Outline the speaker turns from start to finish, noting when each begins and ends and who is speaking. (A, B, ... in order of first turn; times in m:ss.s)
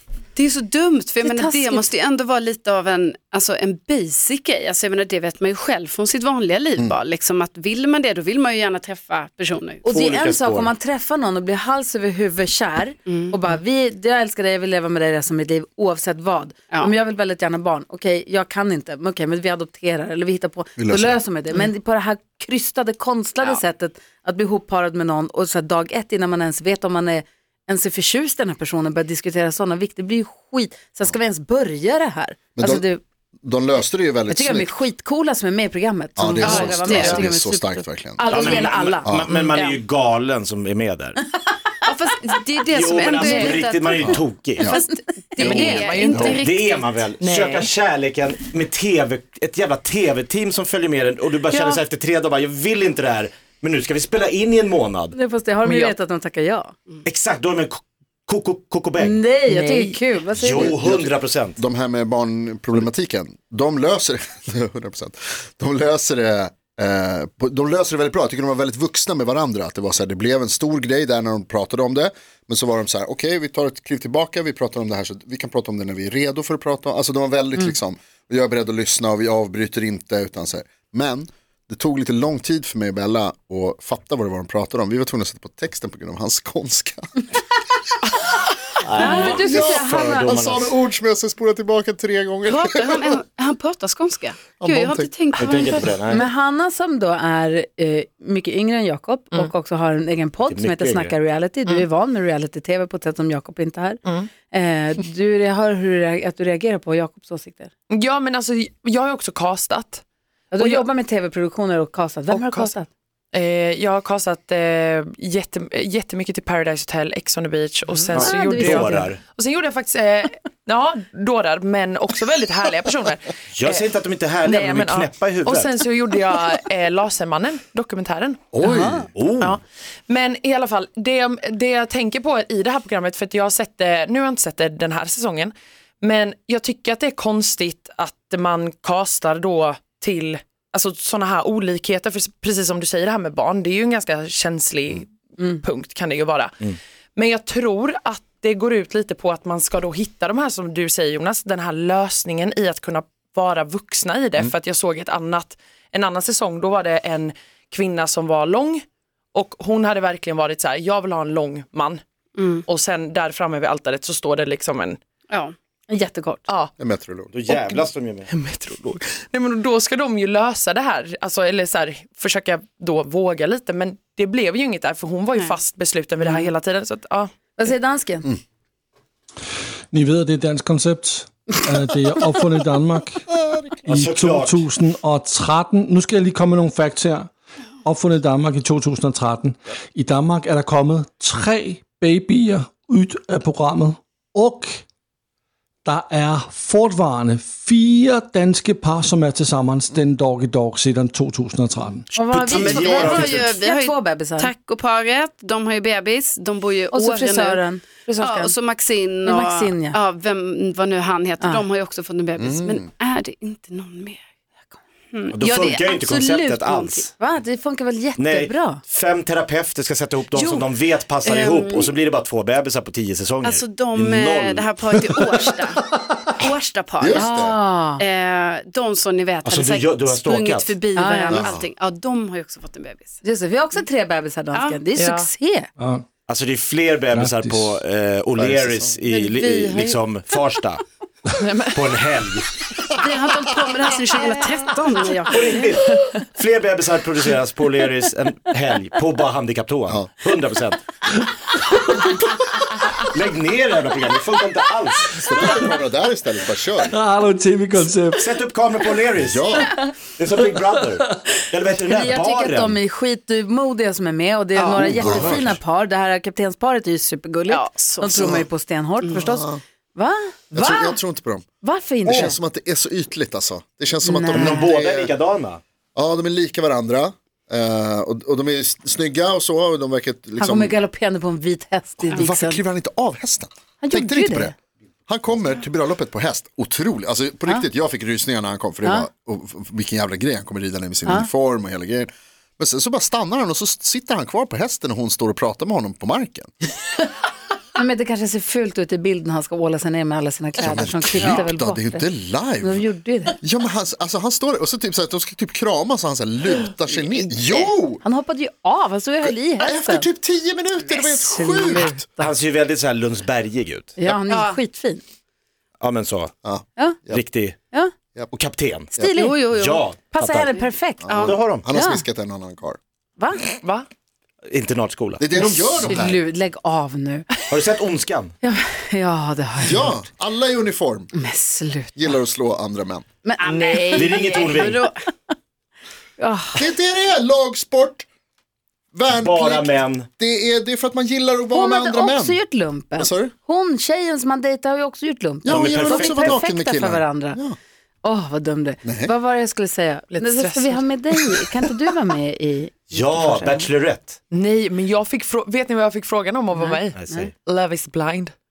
0:00.4-0:09.8 A
0:01.2-0:01.9 B
0:09.8-0:33.0 B
0:09.9-0:10.7 C
0:13.1-0:13.4 A
0:20.8-0:21.2 D
0:32.6-0:32.8 D
0:33.4-0:34.7 D
0:34.3-0:39.7 B
0:36.2-0:39.4 D
0:36.4-0:37.2 A
0:38.3-0:41.2 C
0:41.8-0:47.0 A
0:42.7-0:44.8 C
0:43.2-0:43.6 B
0:44.1-0:44.8 D
0:44.6-0:46.3 B
0:45.4-0:55.2 C
0:45.4-0:46.3 E
0:46.1-0:46.4 D
0:47.2-0:47.7 E
0:51.5-0:51.8 E
0:55.1-0:56.7 B
0:55.6-0:56.0 E
0:57.0-0:59.3 C
0:59.0-1:00.7 B
0:59.5-1:00.0 E
1:00.3-1:01.6 C
1:00.4-1:27.1 D
1:28.8-1:30.7 C
1:29.0-1:30.5 B
1:29.0-1:33.2 D
1:32.5-1:35.9 A
1:34.6-1:35.1 D
1:35.4-1:36.3 C
1:35.4-1:35.8 E
1:36.1-1:47.7 B
1:40.5-1:41.1 C
1:44.1-1:44.3 E
1:47.9-1:50.0 E
1:50.5-1:52.9 B
1:50.5-1:50.8 E
1:52.3-1:52.7 E
1:53.3-2:03.9 E
1:57.9-1:59.2 C
1:58.1-1:59.1 B
2:03.5-2:05.8 C
2:04.4-2:08.4 E
2:08.5-2:09.0 D
2:08.6-2:09.1 B
2:09.2-2:09.6 C
2:09.4-2:38.8 E
2:39.3-2:42.0 E
2:42.4-2:42.6 A
2:42.7-2:45.0 E
2:45.9-2:46.4 B
2:46.8-2:47.3 D
2:47.3-2:48.3 C
2:47.5-2:57.3 E
2:55.3-2:55.6 A
2:57.6-2:58.4 B
2:59.9-3:03.2 F
3:03.9-3:07.3 F
3:03.9-3:04.6 C
3:07.8-3:14.8 F
3:15.8-3:22.1 F
3:22.2-3:24.5 B
3:22.3-3:23.5 C
3:22.5-3:27.6 A
3:26.9-3:28.6 B
3:28.2-3:34.2 A
3:29.2-3:30.0 B
3:32.4-3:32.9 D
3:35.1-3:37.1 A
3:35.3-3:37.1 C
3:37.2-3:38.8 B
3:38.2-3:44.8 C
3:40.3-3:40.7 A
3:41.2-3:42.0 A
3:43.4-3:45.8 A
3:46.4-3:47.5 A
3:47.0-3:47.6 D
3:47.1-3:48.0 B
3:48.0-3:53.2 A
3:49.4-3:50.8 C
3:51.0-3:51.6 B
3:51.3-3:51.7 D
3:53.2-3:55.7 B
3:54.5-3:54.8 A
3:55.0-3:55.3 E
3:55.8-3:56.0 F
3:56.3-4:00.8 C
3:57.1-3:57.8 F
3:58.4-3:58.9 D
3:59.1-4:00.0 A
4:01.4-4:01.8 E
4:01.7-4:02.5 C
4:02.8-4:05.7 A
4:05.3-4:10.8 C
4:13.1-4:15.7 C
4:15.2-4:17.0 D
4:16.9-4:18.4 F
4:18.2-4:19.6 C
4:19.2-4:19.8 D
4:20.2-4:22.8 C
4:21.8-4:31.0 B
4:24.6-4:25.0 A
4:24.8-4:25.6 D
4:27.5-4:28.4 A
4:28.2-4:28.5 D
4:29.0-4:29.3 A
4:29.2-4:29.6 D
4:30.5-4:31.4 D
4:31.6-4:32.4 B
4:32.0-4:35.1 D
4:34.0-4:34.7 B
4:34.3-4:35.6 C
4:36.0-4:40.8 D
4:40.4-4:42.6 B
4:42.0-4:44.5 D
4:43.8-4:44.5 B
4:45.1-4:56.5 D
4:57.8-5:02.0 B
5:00.6-5:02.8 D
5:02.6-5:03.4 B
5:03.4-5:08.0 D
5:08.0-5:10.1 B
5:09.2-5:12.0 D
5:10.9-5:12.3 B
5:12.2-5:14.0 C
5:14.0-5:15.0 B
5:14.3-5:14.6 A
5:15.8-5:16.3 C
5:16.4-5:17.2 D
5:17.1-5:17.6 C
5:18.3-5:20.6 C
5:19.0-5:19.4 B
5:19.1-5:19.9 A
5:20.1-5:21.1 B
5:20.5-5:21.4 A
5:21.0-5:22.8 D
5:21.2-5:21.7 C
5:21.7-5:22.0 B
5:23.2-5:23.4 B
5:23.6-5:23.9 E
5:24.5-5:25.2 C
5:25.2-5:26.2 D
5:25.4-5:27.3 B
5:27.5-5:28.3 C
5:28.4-5:30.0 B
5:29.6-5:31.1 D
5:31.1-5:32.2 B
5:32.0-5:33.0 D
5:33.2-5:34.4 B
5:33.4-5:35.0 A
5:33.4-5:34.0 E
5:34.0-5:34.8 C
5:36.2-5:36.6 B
5:36.6-5:38.1 D
5:38.9-5:42.4 D
5:39.2-5:40.1 C
5:41.5-5:47.4 B
5:43.0-5:43.3 D
5:45.4-5:47.6 D
5:45.5-5:46.4 C
5:48.0-5:53.7 B
5:48.8-5:49.1 D
5:50.1-5:50.9 E
5:52.9-5:54.2 C
5:54.3-5:58.3 E
5:56.5-5:57.3 B
5:57.0-5:57.3 C